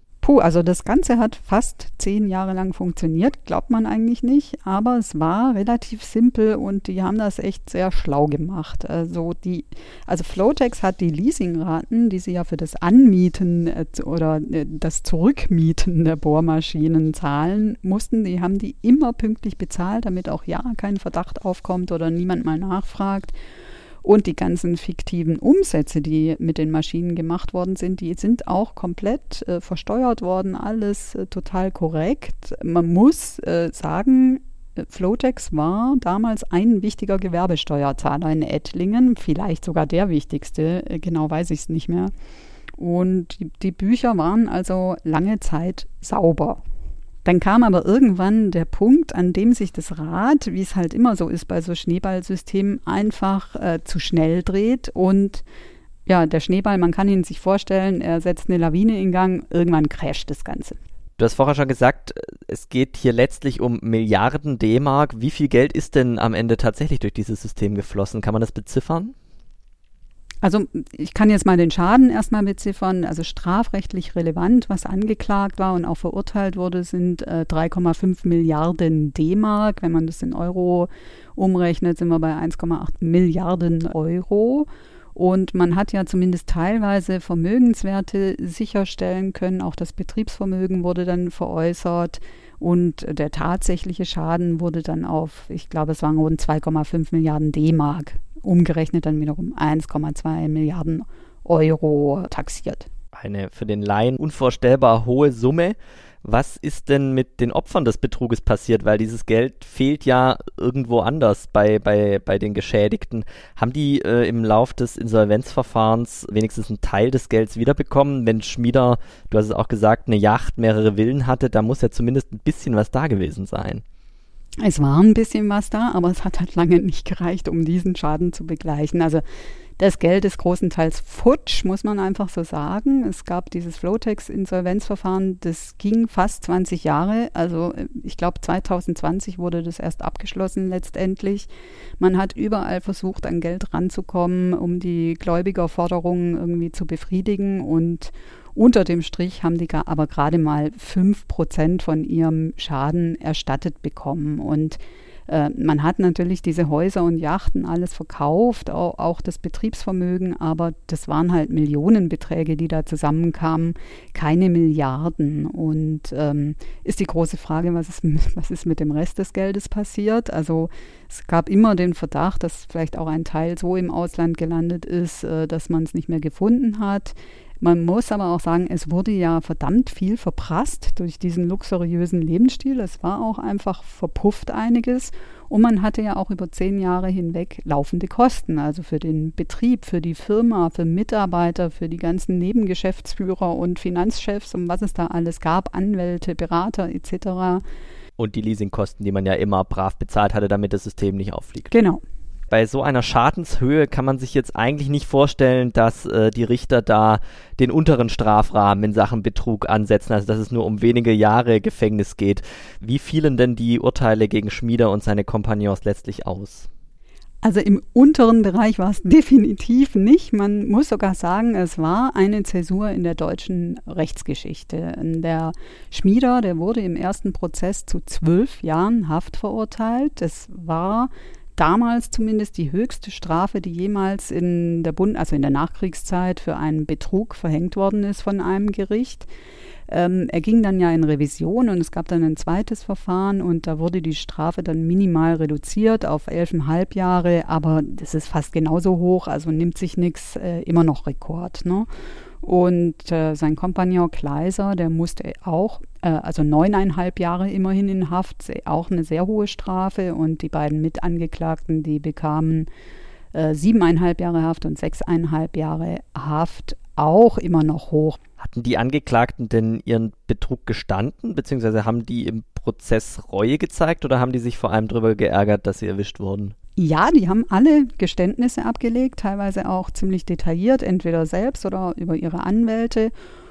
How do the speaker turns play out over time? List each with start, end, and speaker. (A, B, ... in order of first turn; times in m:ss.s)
0:00.2-0:23.3 A
0:24.0-0:42.1 A
0:42.8-0:46.6 A
0:47.2-0:55.4 A
0:56.0-1:00.8 A
1:01.2-1:09.1 B
1:10.4-1:42.9 A
1:43.1-2:03.8 B
2:04.6-2:09.2 A
2:09.8-2:21.5 A
2:22.0-3:17.6 A
3:18.2-3:21.7 B
3:21.7-3:22.0 A
3:22.5-3:36.7 B
3:37.4-3:59.3 A
3:59.9-4:11.9 A
4:12.4-4:22.7 A
4:23.3-4:28.2 A
4:28.4-4:36.5 B
4:36.8-4:43.1 A